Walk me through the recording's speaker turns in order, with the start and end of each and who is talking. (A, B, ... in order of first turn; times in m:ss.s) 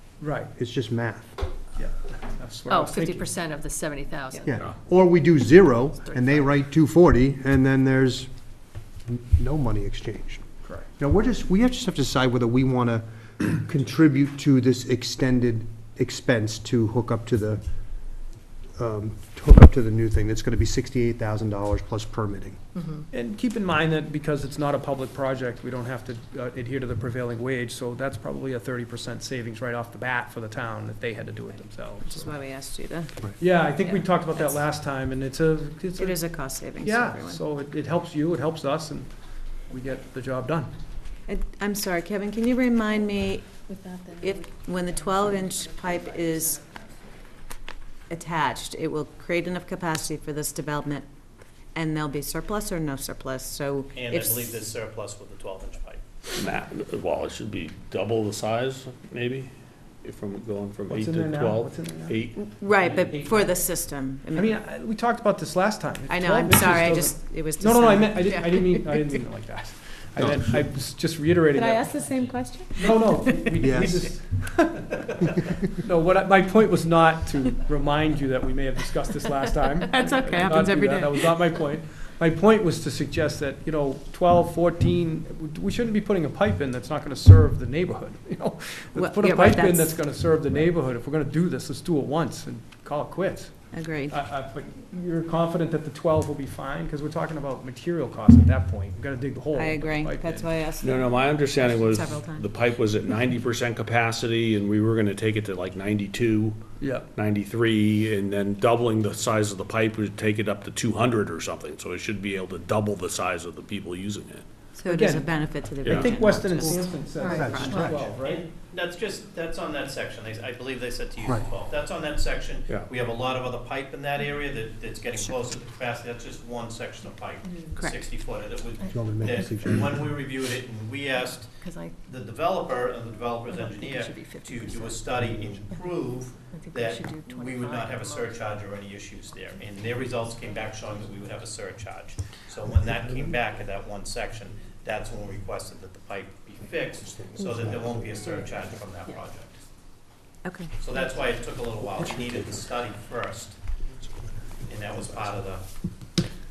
0:00.2-0:00.5 A
0:00.5-0:01.4 B
0:01.8-0:03.3 A
0:02.7-0:04.6 C
0:04.4-0:08.3 B
0:06.0-0:06.5 C
0:09.1-0:17.6 B
0:18.8-0:22.6 B
0:22.8-0:23.0 C
0:23.1-0:32.3 A
0:32.0-0:33.1 D
0:33.4-0:39.1 A
0:33.8-0:34.4 D
0:36.0-0:37.4 D
0:39.7-0:40.7 A
0:41.3-0:43.5 D
0:43.7-0:46.9 C
0:44.2-0:46.6 D
0:48.1-0:51.1 D
0:51.7-0:54.6 D
0:53.9-0:56.0 E
0:56.4-0:59.5 F
1:00.0-1:03.1 F
1:00.9-1:03.6 A
1:02.3-1:04.5 D
1:04.3-1:33.5 A
1:06.1-1:09.2 D
1:11.5-1:13.0 D
1:13.6-1:14.0 B
1:19.9-1:21.4 D
1:29.0-1:30.0 D
1:33.7-1:34.1 D
1:34.1-1:40.6 A
1:39.5-1:42.5 D
1:40.8-1:46.6 F
1:46.8-1:47.1 A
1:47.1-1:54.4 F
1:54.8-1:57.9 D
1:54.8-1:58.5 A
1:55.8-1:56.2 F
1:56.6-1:58.0 B
1:57.1-1:57.9 C
1:57.9-2:11.5 E
2:01.2-2:01.5 B
2:08.8-2:09.4 C
2:08.9-2:09.9 B
2:11.6-2:12.0 C
2:12.0-2:29.6 E
2:13.5-2:15.1 C
2:16.5-2:18.6 C
2:22.9-2:23.2 B
2:27.0-2:28.8 B
2:30.4-2:30.7 D
2:30.8-2:33.6 E
2:31.8-2:32.7 B
2:34.6-2:35.6 E